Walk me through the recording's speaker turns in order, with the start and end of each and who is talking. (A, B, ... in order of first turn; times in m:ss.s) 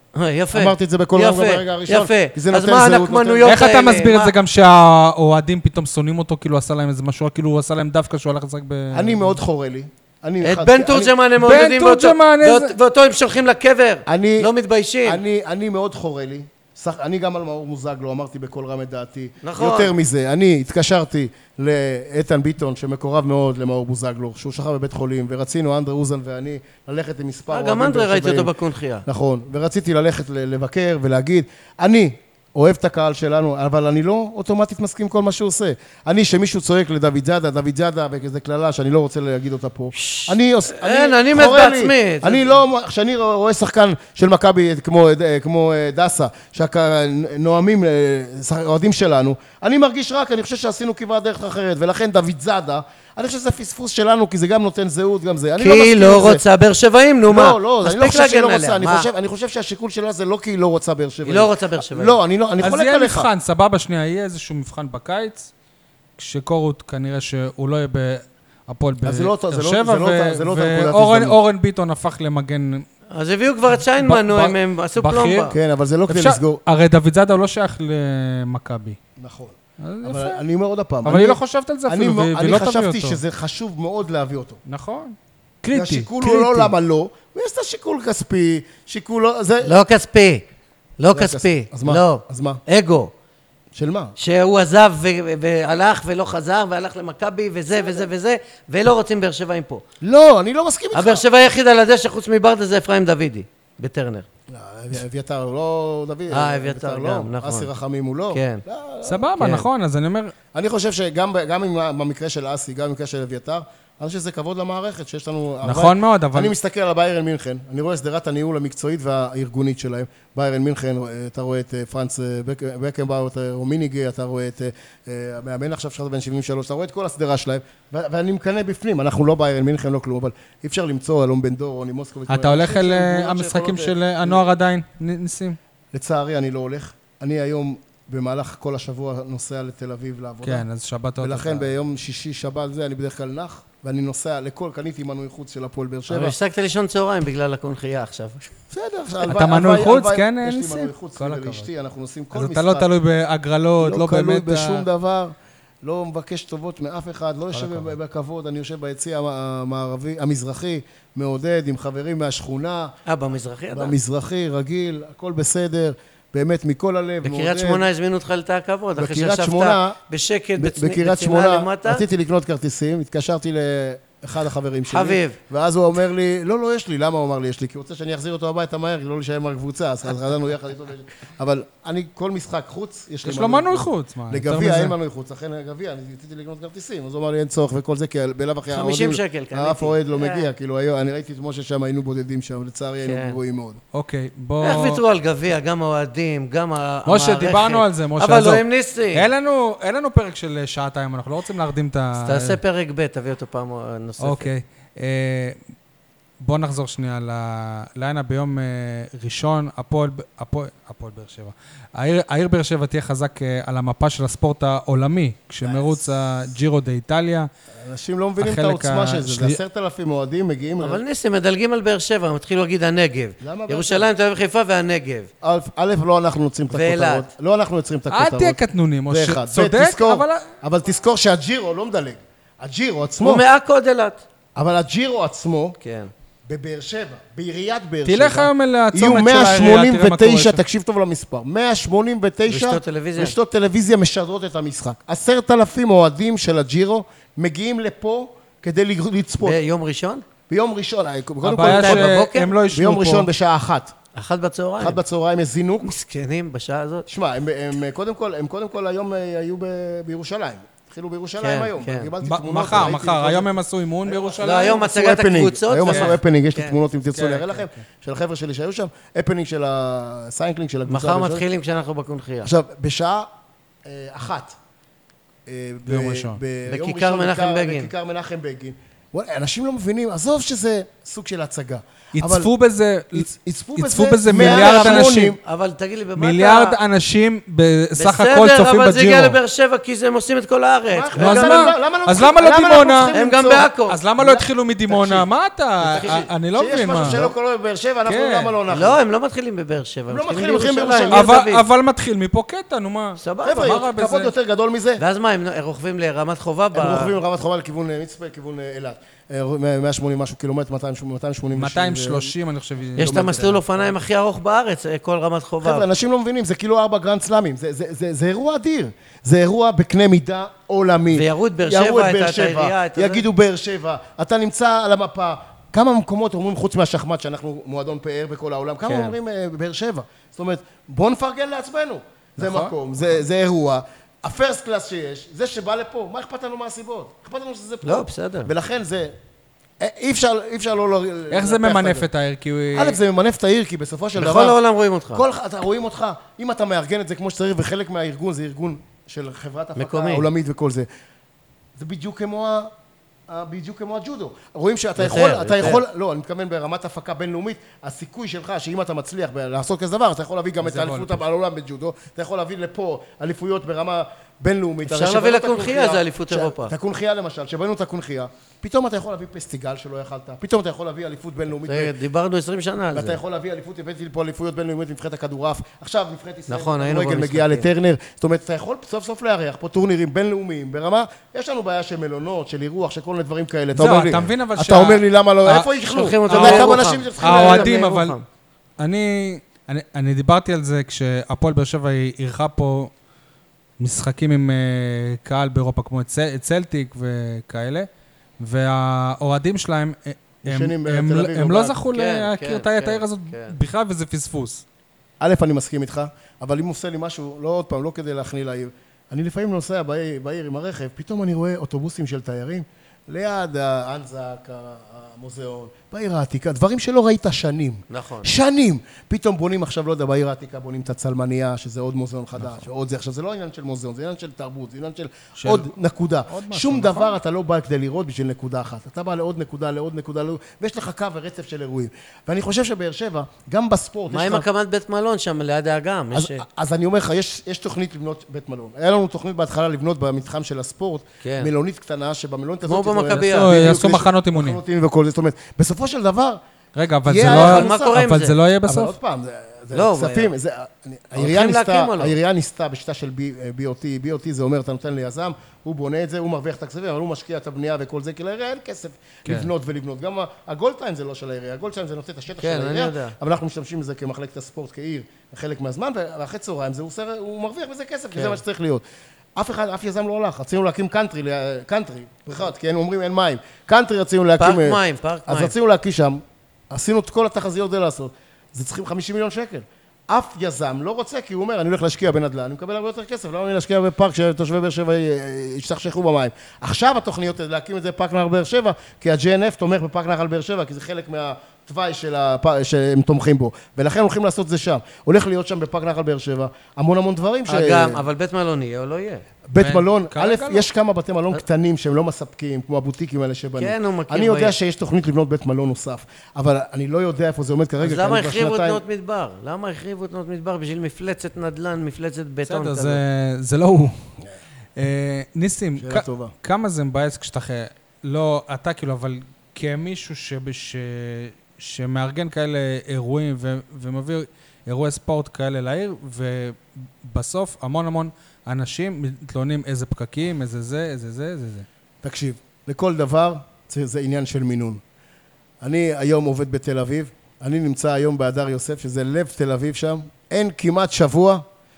0:00.1-0:04.3 A
0:00.5-0:03.6 B
0:03.4-0:09.4 C
0:08.9-0:11.1 B
0:10.4-0:15.2 A
0:11.4-0:12.7 C
0:14.0-0:14.5 B
0:15.0-0:28.5 B
0:19.4-0:19.9 A
0:27.5-0:29.0 A
0:29.0-0:56.4 B
0:39.9-0:42.6 A
0:55.6-0:59.1 A
0:57.3-1:03.3 B
1:01.2-1:02.2 A
1:02.6-1:05.5 C
1:06.2-1:12.8 C
1:09.0-1:11.4 B
1:13.1-1:15.6 A
1:14.0-1:15.5 C
1:15.5-1:16.6 B
1:16.1-1:19.0 C
1:19.2-1:24.6 B
1:19.8-1:20.4 C
1:21.0-1:23.2 C
1:24.6-1:26.7 C
1:25.7-1:29.8 B
1:29.6-1:30.4 A
1:31.0-1:33.1 A
1:31.1-1:32.6 B
1:33.7-1:34.2 B
1:34.2-1:39.8 A
1:40.0-1:41.2 B
1:40.9-1:44.2 A
1:44.5-1:49.3 B
1:46.3-1:47.7 A
1:48.3-1:48.6 A
1:49.0-1:50.3 C
1:49.4-1:49.6 A
1:50.5-2:14.5 B
1:55.6-1:56.5 C
2:12.3-2:15.6 C
2:15.9-2:20.6 B
2:20.4-2:21.7 C
2:21.2-2:26.4 B
2:26.1-2:28.5 A
2:28.7-2:32.9 B
2:29.2-2:31.7 C
2:32.3-2:34.9 C
2:33.8-2:42.9 B
2:37.5-2:37.9 C
2:43.0-2:43.9 A
2:43.7-2:47.8 B
2:47.2-2:52.0 A
2:49.0-2:50.0 B
2:50.6-3:13.8 B
2:54.9-2:55.4 A
3:03.2-3:04.9 C
3:08.7-3:10.5 A
3:13.0-3:13.4 A
3:13.9-3:15.0 C
3:14.6-3:19.3 A
3:17.0-3:22.6 C
3:22.1-3:24.5 A
3:24.2-3:25.6 C
3:26.4-3:37.5 C
3:35.6-3:36.1 B
3:37.8-3:41.0 B
3:38.4-3:39.6 C
3:40.8-3:45.3 A
3:43.4-3:44.1 B
3:45.4-3:53.4 B
3:46.7-3:47.3 A
3:48.1-3:50.5 C
3:53.2-3:54.2 A
3:54.6-3:55.8 B
3:55.8-3:56.1 A
3:56.4-4:09.6 B
3:58.0-4:00.6 C
4:02.5-4:03.3 A
4:09.4-4:10.2 A
4:10.5-4:12.2 B
4:11.4-4:13.3 C
4:11.6-4:12.6 A
4:12.7-4:13.9 B
4:14.1-4:15.0 A
4:14.8-4:15.9 B
4:15.8-4:17.1 A
4:17.1-4:23.5 B
4:21.4-4:22.1 A
4:22.2-4:24.8 C
4:24.0-4:31.4 B
4:24.4-4:26.7 A
4:25.9-4:26.2 C
4:27.1-4:27.7 C
4:30.9-4:32.5 A
4:32.4-4:33.3 B
4:33.8-4:34.6 B
4:35.4-4:42.5 B
4:35.8-4:36.4 C
4:36.6-4:37.9 A
4:42.1-4:45.4 C
4:43.1-4:45.4 B
4:44.3-4:46.8 A
4:46.2-4:49.4 C
4:48.0-4:51.6 A
4:50.9-4:55.3 B
4:51.2-4:53.1 C
4:53.1-4:54.0 A
4:53.9-4:57.2 C
4:55.8-4:59.0 B
4:55.9-4:56.3 A
4:57.0-4:57.3 A
4:58.1-4:58.6 C
4:58.7-5:01.6 A
5:00.1-5:01.3 B
5:01.1-5:04.3 C
5:03.2-5:03.8 A
5:03.4-5:05.0 B
5:05.0-5:07.2 A
5:06.7-5:12.3 B
5:11.5-5:13.6 C
5:13.0-5:13.6 B
5:13.0-5:15.8 A
5:15.6-5:39.1 B
5:21.1-5:23.2 A
5:28.8-5:29.1 A
5:32.4-5:32.7 C
5:37.8-5:38.5 A
5:39.8-5:42.1 B
5:41.3-5:43.0 C
5:42.7-5:44.6 B
5:44.2-5:45.2 A
5:45.1-5:50.9 B
5:49.8-5:50.3 A
5:51.8-5:52.7 B
5:53.3-6:12.0 B
5:55.0-5:55.8 A
6:00.6-6:01.2 C
6:04.8-6:06.7 A
6:11.6-6:13.2 A
6:12.9-6:27.8 B
6:16.5-6:17.7 A
6:23.7-6:25.7 C
6:25.9-6:28.2 A
6:26.3-6:28.2 C
6:28.8-6:32.9 C
6:33.8-6:37.9 C
6:38.4-6:44.6 C
6:40.4-6:41.8 B
6:41.9-6:43.6 A
6:45.2-7:14.4 B
6:57.9-6:58.3 A
7:05.4-7:05.7 C
7:06.3-7:07.1 C
7:14.1-7:16.4 A
7:16.1-7:26.4 B
7:21.2-7:21.5 A
7:22.6-7:23.6 A
7:23.1-7:24.6 C
7:26.7-7:28.9 C
7:27.0-7:28.0 B
7:27.2-7:28.4 A
7:28.6-7:48.8 B
7:29.7-7:30.3 A
7:31.1-7:32.2 A
7:42.4-7:43.1 A
7:48.1-7:48.4 A
7:49.3-8:18.0 B
7:54.4-7:55.5 A
8:17.5-8:19.2 A
8:19.5-8:28.8 B
8:19.6-8:20.6 C
8:23.6-8:24.5 A
8:27.8-8:33.0 A
8:32.5-8:34.0 C
8:34.8-8:51.6 C
8:35.8-8:36.3 B
8:52.0-8:54.8 B
8:55.6-9:01.4 B